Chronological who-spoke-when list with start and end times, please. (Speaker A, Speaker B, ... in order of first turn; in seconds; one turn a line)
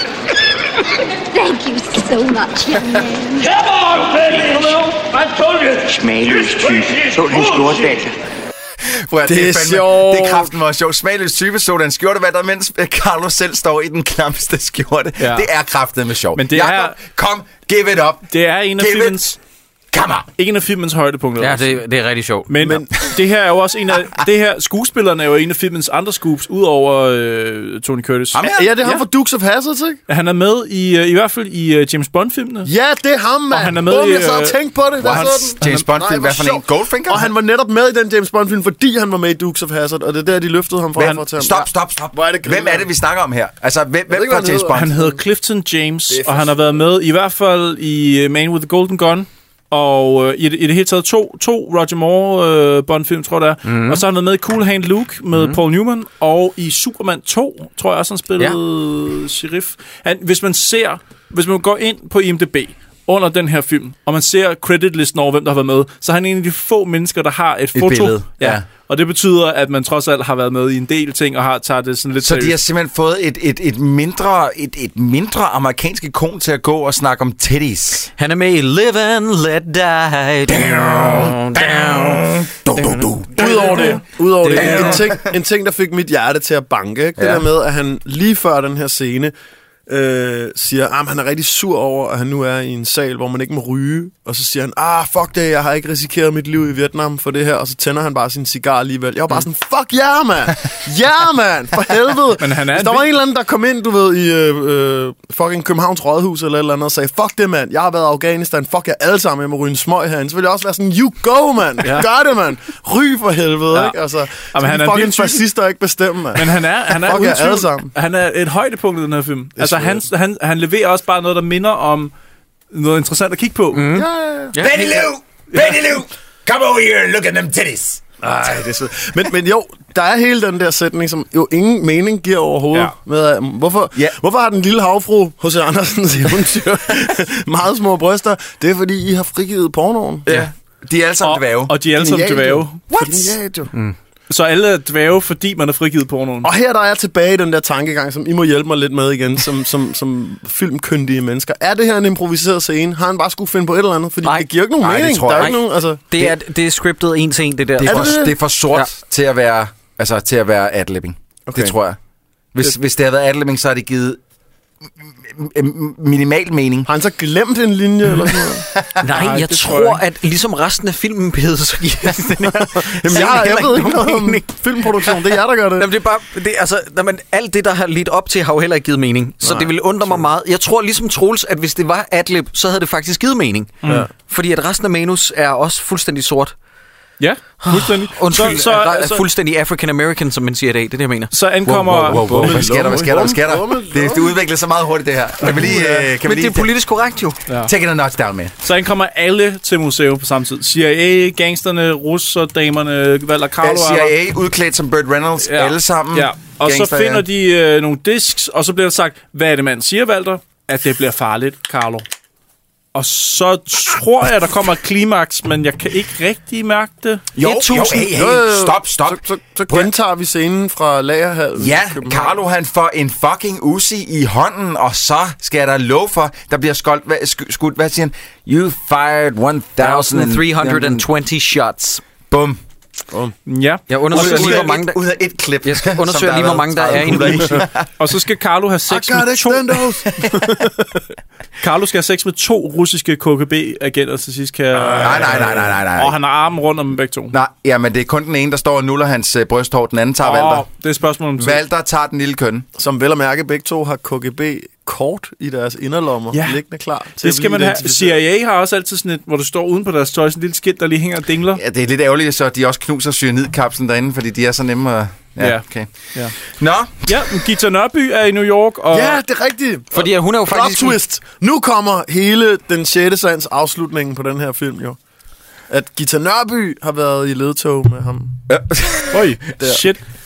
Speaker A: 1.4-3.4
Speaker B: 3.4-5.9
Speaker C: 5.9-8.1
Speaker B: 7.3-7.6
Speaker D: 8.9-18.3
Speaker E: 9.2-10.5
Speaker F: 15.2-15.5
Speaker F: 16.4-17.0
Speaker F: 18.3-19.4
Speaker D: 18.8-19.2
Speaker D: 19.9-20.3
Speaker F: 20.4-21.8
Speaker G: 21.4-22.5
Speaker F: 22.5-29.0
Speaker E: 22.6-23.1
Speaker D: 28.3-28.8
Speaker E: 28.5-30.0
Speaker F: 30.1-32.7
Speaker E: 32.6-42.9
Speaker F: 33.5-35.9
Speaker D: 35.0-37.3
Speaker D: 41.0-45.0
Speaker E: 44.1-45.2
Speaker F: 44.7-72.6
Speaker E: 46.1-46.5
Speaker G: 53.6-54.0
Speaker G: 55.4-55.6
Speaker D: 67.7-68.6
Speaker D: 72.2-78.1
Speaker G: 78.2-82.2
Speaker D: 80.5-83.8
Speaker E: 83.3-89.3
Speaker F: 83.4-85.0
Speaker D: 84.5-85.2
Speaker D: 87.2-87.5
Speaker E: 89.9-117.9
Speaker F: 102.4-103.1
Speaker F: 113.7-114.0
Speaker F: 114.5-115.4
Speaker F: 116.3-122.1
Speaker E: 119.6-120.0
Speaker F: 122.7-123.8
Speaker G: 123.7-125.0
Speaker E: 123.9-124.6
Speaker D: 124.6-128.0
Speaker F: 125.5-125.9
Speaker E: 128.2-140.3
Speaker D: 140.3-141.8
Speaker F: 141.2-143.0
Speaker E: 141.9-143.7
Speaker D: 142.9-143.3
Speaker F: 144.3-146.5
Speaker E: 146.4-156.3
Speaker D: 154.8-155.6
Speaker G: 155.4-158.9
Speaker D: 157.8-162.0
Speaker E: 157.8-158.4
Speaker E: 161.5-161.7
Speaker D: 162.5-164.2
Speaker D: 165.2-166.9
Speaker E: 166.9-168.7
Speaker G: 169.0-175.2
Speaker F: 169.0-170.0
Speaker E: 172.6-175.9
Speaker G: 175.8-186.5
Speaker E: 179.4-180.3
Speaker F: 187.2-189.2
Speaker G: 187.6-191.3
Speaker F: 191.3-192.7
Speaker D: 191.7-196.7
Speaker E: 192.1-194.3
Speaker E: 195.5-196.1
Speaker G: 196.2-197.4
Speaker D: 197.6-198.5
Speaker F: 198.6-204.1
Speaker D: 203.6-207.2
Speaker F: 205.4-212.0
Speaker F: 212.9-217.2
Speaker D: 217.4-219.9
Speaker G: 217.4-218.1
Speaker E: 218.1-222.4
Speaker D: 221.6-231.1
Speaker G: 229.8-232.0
Speaker D: 232.3-232.6
Speaker F: 233.5-234.8
Speaker G: 233.9-235.0
Speaker D: 234.1-237.9
Speaker G: 235.6-237.6
Speaker F: 238.0-239.9
Speaker E: 238.9-240.9
Speaker F: 241.6-247.3
Speaker D: 245.0-246.2
Speaker D: 247.3-250.7
Speaker F: 250.2-251.6
Speaker D: 251.4-252.7
Speaker E: 252.8-258.2
Speaker F: 256.3-256.6
Speaker F: 257.2-261.6
Speaker D: 261.5-265.9
Speaker F: 265.4-266.4
Speaker D: 266.4-266.9
Speaker F: 267.1-269.2
Speaker E: 268.9-275.0
Speaker G: 269.9-271.0
Speaker E: 275.7-278.4
Speaker D: 278.5-279.4
Speaker F: 279.1-280.0